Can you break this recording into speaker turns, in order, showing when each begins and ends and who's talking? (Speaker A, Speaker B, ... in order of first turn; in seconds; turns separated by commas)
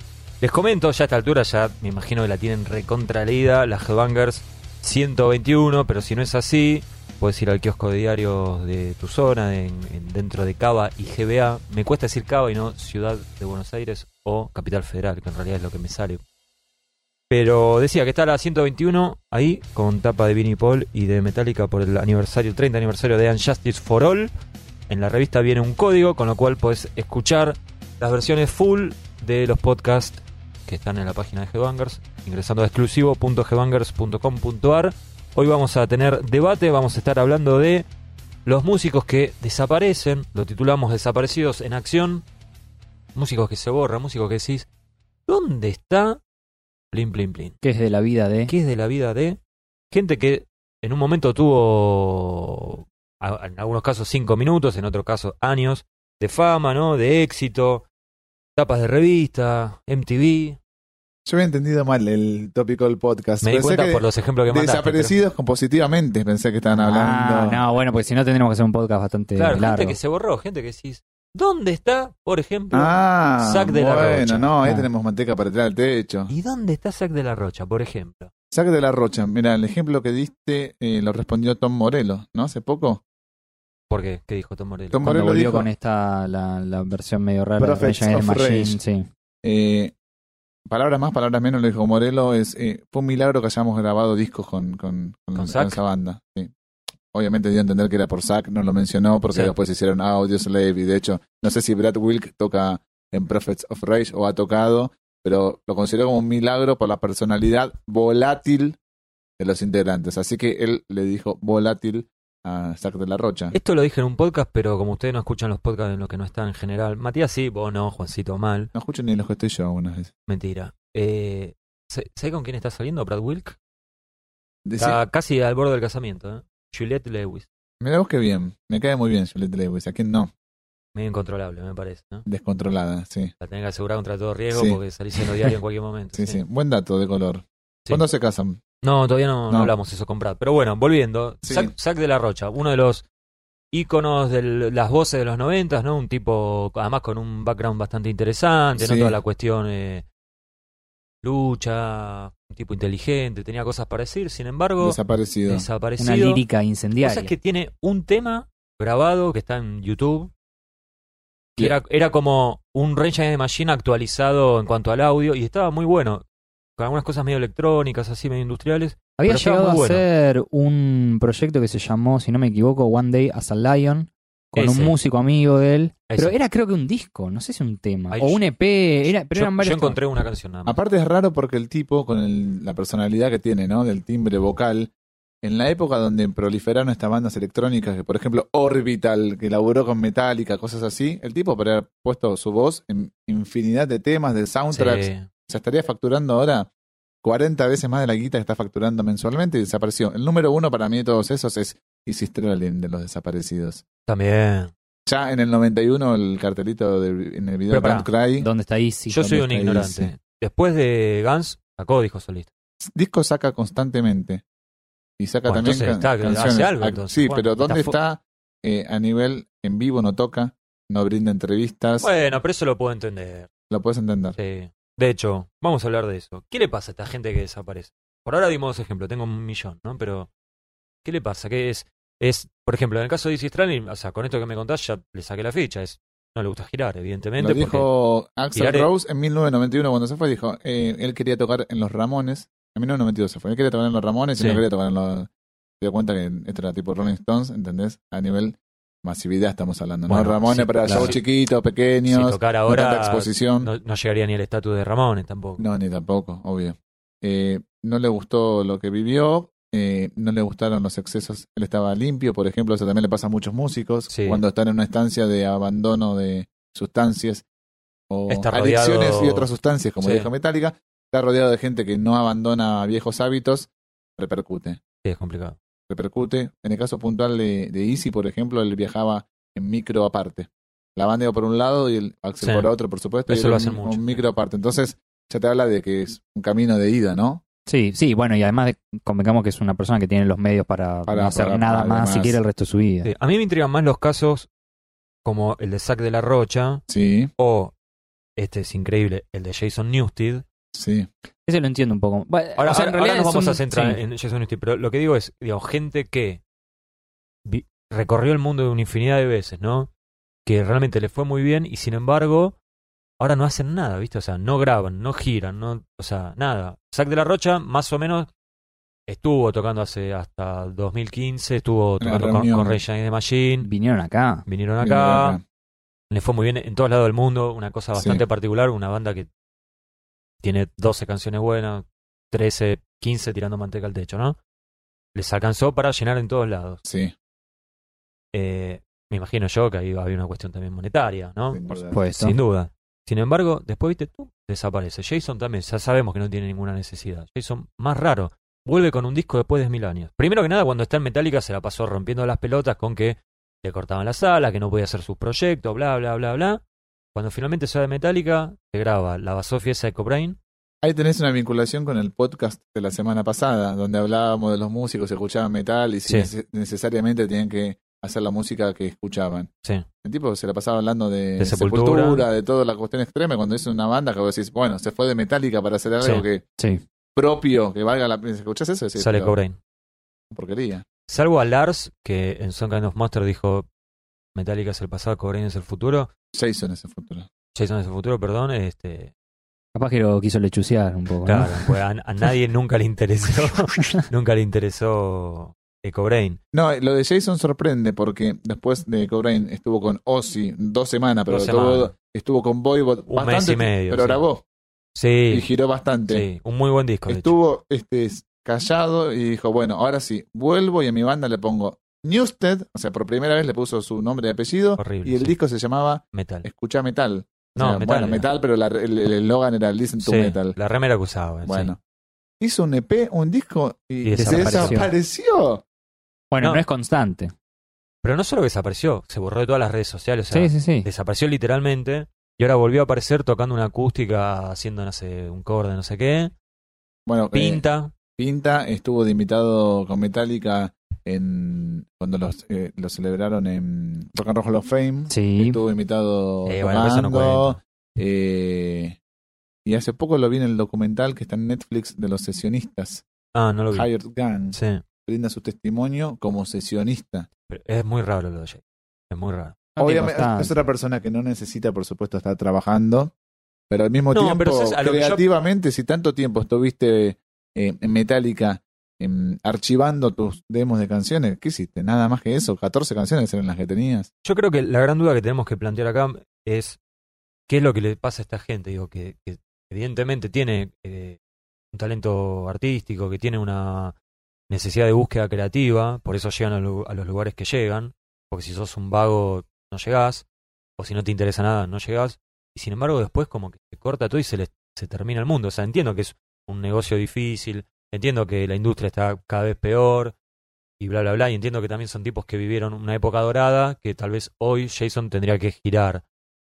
Speaker A: 0.4-16.2, Speaker A: 17.3-24.3, Speaker A: 24.9-37.9, Speaker A: 38.5-42.2, Speaker A: 43.1-44.7, Speaker A: 45.3-46.2, Speaker A: 46.9-47.6, Speaker B: 47.6-48.5, Speaker A: 48.5-49.4, Speaker A: 49.9-57.9, Speaker A: 58.6-60.6, Speaker C: 61.3-67.6, Speaker A: 63.4-65.2, Speaker B: 66.7-70.0, Speaker A: 69.4-74.5, Speaker C: 72.7-76.3, Speaker B: 74.6-74.9, Speaker A: 76.3-78.3, Speaker C: 78.5-83.0, Speaker A: 83.9-85.1, Speaker C: 84.9-85.7, Speaker B: 85.0-89.1, Speaker C: 87.6-88.8, Speaker C: 89.4-89.9, Speaker C: 90.7-96.5, Speaker A: 95.3-95.8, Speaker C: 97.1-108.8, Speaker C: 109.4-113.5, Speaker A: 113.5-118.7, Speaker C: 118.7-120.1, Speaker A: 120.3-123.6, Speaker C: 124.7-125.0, Speaker A: 124.8-127.5, Speaker C: 127.8-130.3, Speaker A: 130.9-132.3, Speaker C: 132.3-133.3, Speaker A: 133.4-136.4, Speaker C: 134.5-135.5, Speaker C: 136.1-138.6, Speaker A: 138.8-143.1, Speaker C: 141.4-141.7, Speaker A: 143.7-150.1, Speaker C: 148.8-149.2, Speaker A: 151.2-156.4, Speaker C: 154.8-155.7, Speaker B: 156.0-157.3, Speaker A: 157.0-160.3, Speaker A: 161.6-166.2, Speaker A: 166.8-170.1, Speaker B: 169.2-180.0, Speaker A: 174.5-175.0, Speaker A: 176.1-176.3, Speaker A: 178.1-178.4, Speaker A: 179.0-180.8, Speaker C: 180.7-184.9, Speaker C: 185.4-196.7, Speaker A: 194.7-195.3, Speaker C: 197.2-203.8, Speaker A: 204.1-204.7, Speaker C: 205.1-208.5, Speaker A: 207.7-208.1, Speaker B: 208.4-209.4, Speaker A: 209.1-212.5, Speaker C: 209.4-210.1, Speaker C: 212.8-214.4, Speaker C: 215.2-222.1, Speaker A: 215.5-218.0, Speaker A: 222.0-223.5, Speaker C: 223.7-224.4, Speaker A: 224.4-230.3, Speaker A: 231.0-237.9, Speaker C: 237.4-245.3, Speaker A: 238.5-238.9, Speaker A: 244.4-244.6, Speaker C: 245.8-253.7, Speaker A: 250.1-251.2, Speaker B: 250.8-251.2, Speaker A: 252.1-255.7, Speaker C: 255.6-267.4, Speaker A: 264.1-264.4, Speaker C: 268.1-274.8, Speaker A: 268.3-269.5, Speaker A: 270.0-270.3, Speaker A: 275.0-275.6, Speaker C: 275.9-287.4, Speaker A: 282.4-282.7, Speaker A: 283.3-284.2, Speaker B: 287.7-293.1, Speaker C: 291.1-292.4, Speaker A: 293.0-294.5, Speaker A: 295.2-296.8, Speaker C: 296.9-297.3, Speaker A: 297.4-297.7, Speaker A: 298.4-300.5, Speaker C: 300.7-301.1, Speaker B: 301.5-304.0, Speaker A: 302.6-306.4, Speaker A: 307.4-309.9, Speaker A: 310.4-312.6, Speaker A: 313.2-318.3, Speaker A: 319.1-323.7, Speaker C: 322.0-322.8, Speaker B: 323.6-324.4, Speaker A: 324.5-325.4, Speaker C: 324.8-325.4, Speaker A: 326.1-329.3, Speaker C: 327.9-328.2, Speaker A: 330.4-334.4, Speaker A: 335.1-336.8, Speaker C: 336.8-337.1, Speaker A: 338.3-356.6, Speaker C: 341.5-342.0, Speaker B: 341.8-342.4, Speaker A: 357.1-360.4, Speaker C: 360.8-369.5, Speaker C: 370.0-376.4, Speaker A: 371.4-372.3, Speaker B: 376.6-376.8, Speaker C: 377.1-379.4, Speaker A: 379.0-379.6, Speaker C: 380.3-380.9, Speaker A: 381.1-383.7, Speaker A: 384.4-386.1, Speaker C: 386.4-387.3, Speaker A: 387.5-389.1, Speaker B: 389.8-392.3, Speaker A: 391.2-396.4, Speaker B: 393.8-394.0, Speaker C: 396.5-404.4, Speaker A: 401.3-401.9, Speaker A: 403.1-404.2, Speaker A: 404.9-405.5, Speaker C: 405.3-406.2, Speaker A: 406.1-407.4, Speaker C: 407.1-420.6, Speaker A: 414.8-415.4, Speaker A: 416.1-416.5, Speaker A: 417.6-418.3, Speaker A: 420.0-421.7, Speaker C: 421.4-421.8, Speaker C: 422.4-425.6, Speaker A: 424.0-424.8, Speaker B: 424.2-424.9, Speaker B: 426.3-427.3, Speaker A: 428.0-436.3, Speaker B: 430.3-430.9, Speaker C: 437.1-437.6, Speaker A: 437.3-437.9, Speaker C: 438.2-449.0, Speaker B: 445.1-445.6, Speaker A: 446.5-447.6, Speaker C: 449.6-453.1, Speaker A: 453.3-453.9, Speaker C: 453.7-457.3, Speaker A: 454.5-454.8, Speaker A: 457.5-459.6, Speaker C: 459.8-463.1, Speaker B: 459.8-460.6, Speaker C: 463.7-474.1, Speaker A: 464.1-465.3, Speaker A: 474.2-476.8, Speaker A: 477.5-481.2, Speaker A: 481.7-483.9, Speaker A: 484.5-490.3, Speaker A: 490.8-500.2, Speaker A: 500.8-506.0